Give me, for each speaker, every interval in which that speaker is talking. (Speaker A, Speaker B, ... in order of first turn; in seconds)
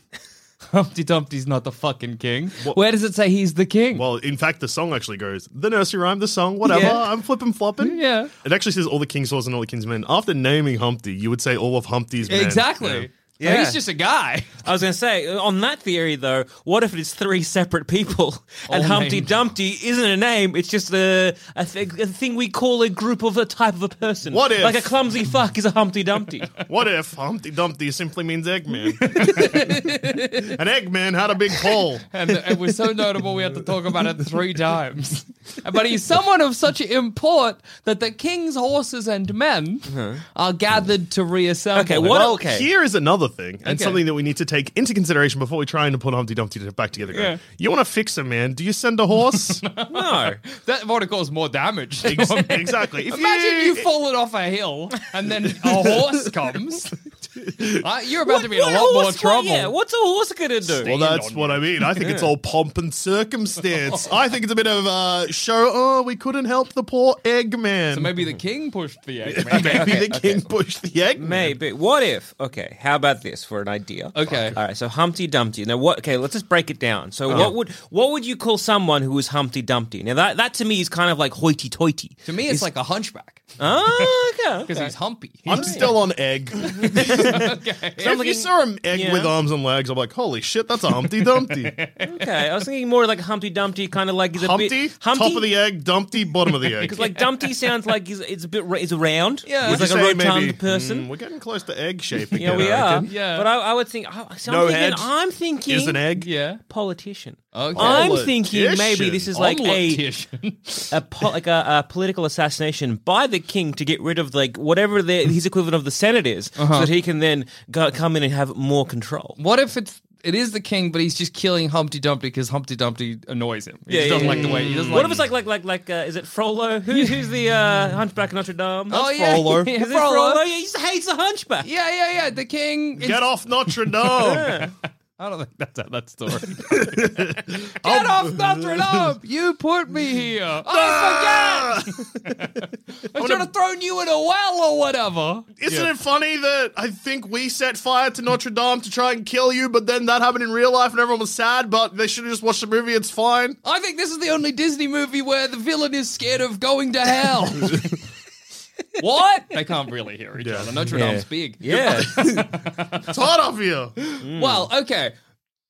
Speaker A: 0.7-4.0, 7.8-8.3, 12.3-14.5, 18.7-19.3, 29.0-30.5, 32.1-42.2, 43.6-44.0, 47.1-47.4, 49.3-59.7, 60.8-61.7, 67.9-70.0, 74.1-74.6, 82.3-83.5, 84.7-86.0, 86.8-88.1, 91.5-92.1, 96.8-97.2, 99.5-99.8, 103.1-103.5, 106.2-106.6, 107.5-108.2, 109.3-110.9, 116.6-116.9, 119.4-125.2, 128.9-130.4, 131.6-133.3, 133.8-145.9, 153.6-158.0, 159.0-163.1, 164.0-165.1
Speaker B: 3.9-13.1, 24.3-24.9, 26.6-32.1, 42.0-49.6, 52.0-53.9, 57.6-57.8, 60.7-68.1, 69.3-71.5, 77.3-77.5, 85.5-91.8, 94.4-97.0, 99.6-103.1, 104.5-105.1, 105.7-106.3, 107.8-109.3, 124.2-125.3, 133.0-134.7, 136.7-139.1, 140.7-142.5, 143.2-143.5, 145.6-153.6, 160.4-161.0, 163.1-164.0
Speaker C: 6.7-7.1, 13.4-13.8, 14.6-26.6, 39.9-40.2, 41.8-42.7, 49.9-50.4, 58.3-61.0, 61.9-62.3, 69.5-70.5, 71.2-82.7, 83.6-84.9, 85.6-85.9, 86.8-87.4, 88.0-89.3, 92.1-95.5, 96.8-101.1, 102.4-106.0, 106.7-110.0, 110.9-119.4, 123.9-131.7, 134.2-134.7, 160.9-162.4, 164.2-164.7